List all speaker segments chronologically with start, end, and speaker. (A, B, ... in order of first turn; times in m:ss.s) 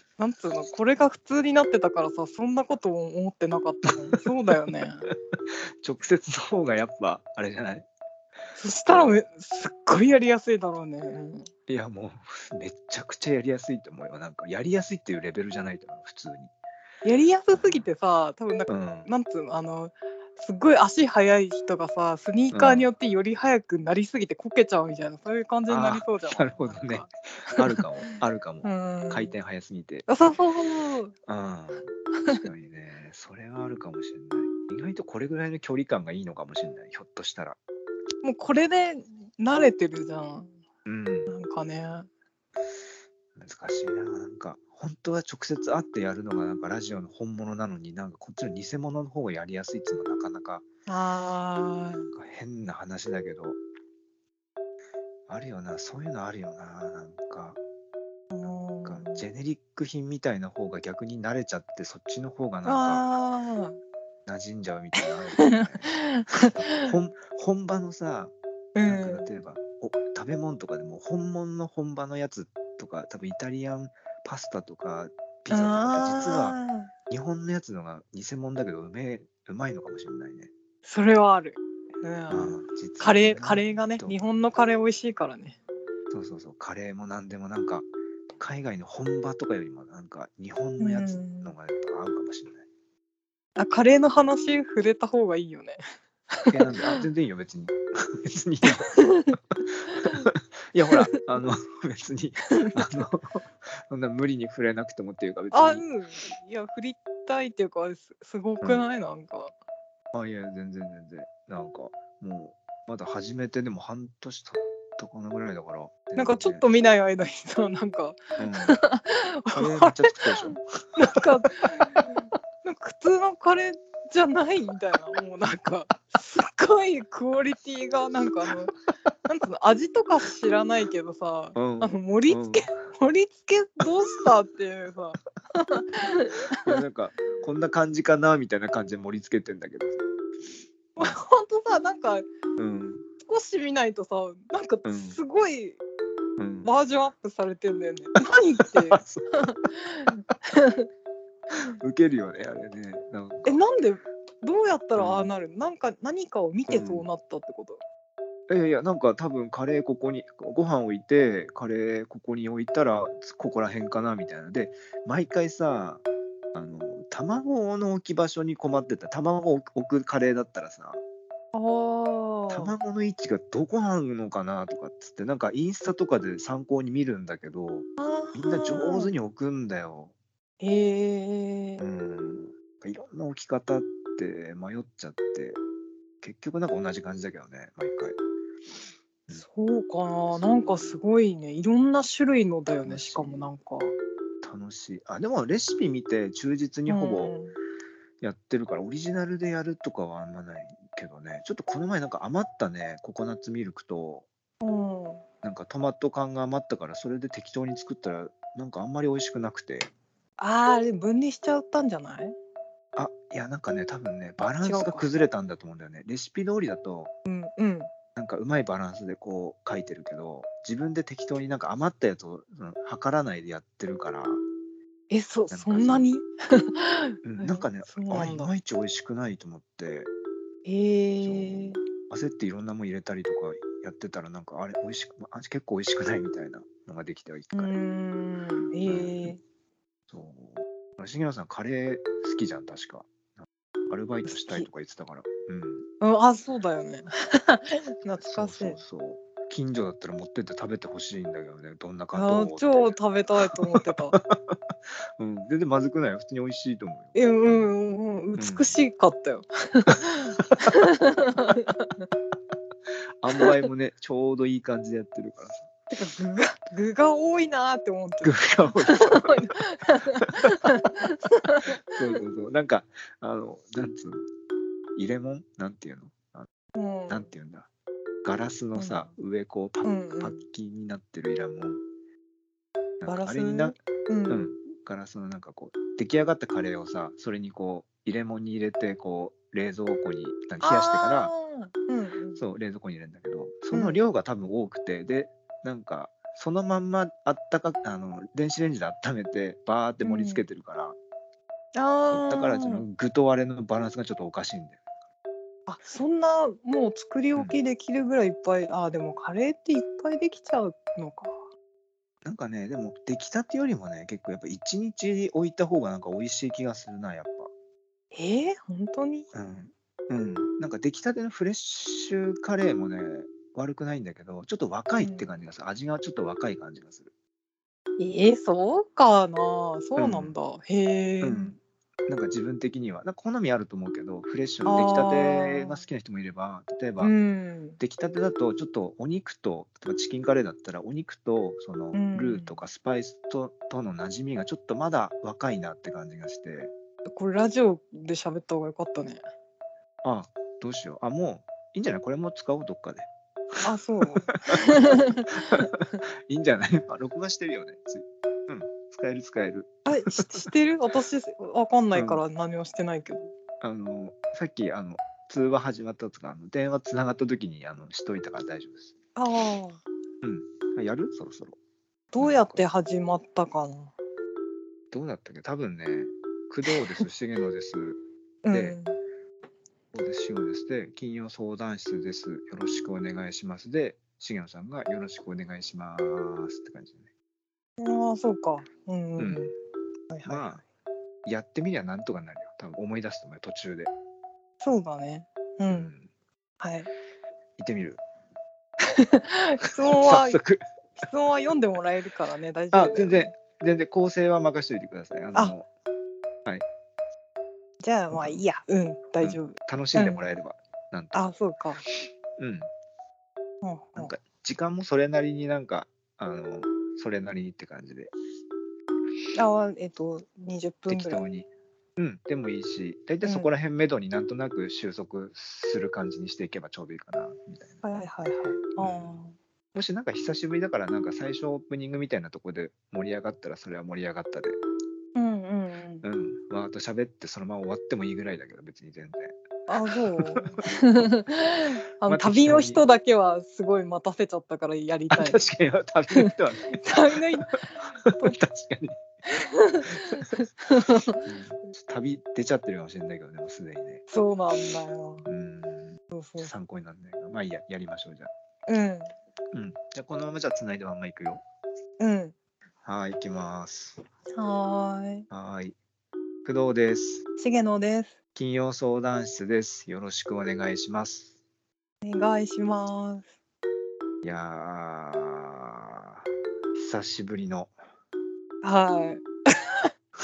0:00.2-0:05.1 A
0:05.3-0:07.9 B
0:08.6-0:11.5 A
0:08.9-0:09.2 B
0:11.7-0:16.5 B
0:17.0-0:27.8 A
0:17.5-0:17.9 B
0:18.7-0:19.1 B
0:22.5-0:22.9 B
0:25.7-0:30.1 B
0:28.6-0:29.4 A
0:30.1-0:31.1 A
0:31.3-0:37.6 B
0:38.2-0:40.5 A
0:40.9-0:41.3 B
0:41.3-0:42.1 A
0:43.4-0:50.6 B
0:50.9-0:52.1 A
0:52.1-0:53.6 B
0:55.3-0:57.6 B
0:58.3-0:59.2 A
0:58.4-1:03.1 B
1:02.6-1:03.8 A
1:04.3-1:08.3 B
1:05.0-1:06.9 A
1:08.8-1:09.3 A
1:08.8-1:16.6 B
1:15.5-1:16.9 A
1:17.1-1:20.5 B
1:20.8-1:25.6 A
1:22.3-1:24.2 B
1:26.1-1:32.6 B
1:30.8-1:31.5 A
1:33.6-1:35.8 A
1:36.4-1:37.0 A
1:36.5-1:39.0 B
1:38.7-1:39.4 A
1:39.9-1:40.3 A
1:40.0-1:45.9 B
1:45.5-1:49.5 A
1:50.1-1:56.6 B
1:56.2-2:08.8 A
1:58.4-1:58.8 B
1:59.5-2:00.6 B
2:09.3-2:16.8 A
2:11.6-2:12.7 B
2:16.6-2:20.0 B
2:21.0-2:22.3 A
2:22.6-2:23.1 B
2:23.2-2:25.8 A
2:24.8-2:25.2 B
2:26.4-2:26.7 B
2:26.6-2:30.8 A
2:28.7-2:29.3 B
2:31.8-2:33.6 B
2:33.4-2:37.8 A
2:35.0-2:35.3 B
2:36.7-2:37.1 B
2:38.5-2:51.0 B
2:51.5-2:52.8 A
2:52.5-3:00.1 B
2:58.0-2:59.1 A
3:00.6-3:01.8 A
3:01.8-3:05.6 B
3:06.2-3:08.2 B
3:09.3-3:14.0 A
3:10.3-3:11.0 B
3:12.8-3:13.5 B
3:14.4-3:17.4 B
3:16.9-3:17.6 A
3:18.2-3:24.3 B
3:24.6-3:25.2 A
3:25.4-3:29.9 B
3:30.4-3:32.4 A
3:33.0-3:37.1 B
3:34.4-3:35.1 A
3:37.3-3:37.9 A
3:38.2-3:44.4 B
3:45.1-3:48.5 A
3:45.5-3:46.1 B
3:47.2-3:50.1 B
3:50.6-3:51.8 A
3:51.2-3:57.8 B
3:57.5-3:59.4 A
3:58.8-3:59.4 B
4:00.1-4:03.1 B
4:03.9-4:05.9 B
4:04.3-4:04.7 A
4:06.0-4:08.8 A
4:08.2-4:13.0 B
4:12.1-4:14.2 A
4:13.5-4:14.6 B
4:15.2-4:17.7 B
4:17.1-4:22.1 A
4:18.4-4:18.8 B
4:23.2-4:25.7 B
4:23.4-4:23.7 A
4:25.9-4:32.0 A
4:28.2-4:29.5 B
4:30.4-4:30.7 B
4:31.9-4:34.3 B
4:35.0-4:36.5 B
4:36.7-4:37.3 A
4:37.1-4:37.7 B
4:38.2-4:41.8 B
4:38.8-4:39.1 A
4:39.8-4:40.4 A
4:43.0-4:43.8 B
4:43.1-4:44.5 A
4:44.3-4:51.3 B
4:50.6-4:52.4 A
4:52.4-5:01.0 B
4:53.7-4:54.0 A
5:00.0-5:00.4 A
5:01.8-5:02.9 A
5:02.1-5:04.8 B
5:05.7-5:11.4 A
5:12.2-5:17.5 B
5:18.1-5:19.3 A
5:19.3-5:27.1 B
5:25.0-5:25.3 A
5:28.0-5:31.6 A
5:30.0-5:30.4 B
5:31.2-5:37.1 B
5:34.6-5:35.9 A
5:37.0-5:37.8 A
5:37.8-5:46.7 B
5:41.9-5:42.6 A
5:47.1-5:49.2 A
5:50.0-5:53.1 B
5:53.6-5:55.7 A
5:56.3-5:59.8 B
5:59.9-6:03.3 A
6:01.9-6:02.2 B
6:03.6-6:09.0 B
6:09.2-6:09.8 A
6:10.2-6:11.6 B
6:12.1-6:13.9 A
6:12.2-6:12.6 B
6:14.9-6:18.8 B
6:16.7-6:17.0 A
6:18.4-6:18.9 A
6:19.9-6:27.1 B
6:27.8-6:29.5 A
6:29.2-6:29.5 B
6:30.1-6:30.6 A
6:30.2-6:30.6 B
6:31.2-6:33.9 B
6:34.6-6:35.9 A
6:35.7-6:36.1 B
6:36.6-6:36.9 A
6:37.6-6:38.0 B
6:39.0-6:40.4 A
6:40.0-6:40.6 B
6:41.0-6:43.3 A
6:42.7-6:45.7 B
6:47.8-6:50.3 A
6:48.1-6:48.4 B
6:49.2-6:51.3 B
6:51.1-6:51.8 A
6:52.4-6:52.7 B
6:53.6-6:54.1 A
6:54.0-6:58.1 B
6:59.4-7:01.2 A
7:00.9-7:07.8 B
7:03.2-7:03.5 A
7:07.8-7:09.4 A
7:08.8-7:09.2 B
7:09.7-7:14.6 B
7:15.2-7:16.1 A
7:16.0-7:19.4 B
7:19.7-7:25.4 A
7:19.9-7:21.1 B
7:22.1-7:22.8 B
7:25.1-7:27.4 B
7:26.1-7:28.4 A
7:28.1-7:29.0 B
7:29.3-7:31.2 A
7:31.3-7:34.0 B
7:34.1-7:35.3 A
7:35.3-7:38.3 B
7:36.1-7:36.5 A
7:38.7-7:39.1 A
7:39.5-7:41.4 B
7:42.0-7:42.4 A
7:42.8-7:44.0 B
7:44.3-7:45.3 A
7:45.3-7:45.8 B
7:46.4-7:47.2 B
7:47.4-7:48.2 A
7:48.4-7:51.4 B
7:52.0-7:53.3 A
7:54.2-7:57.7 B
7:58.6-7:59.9 A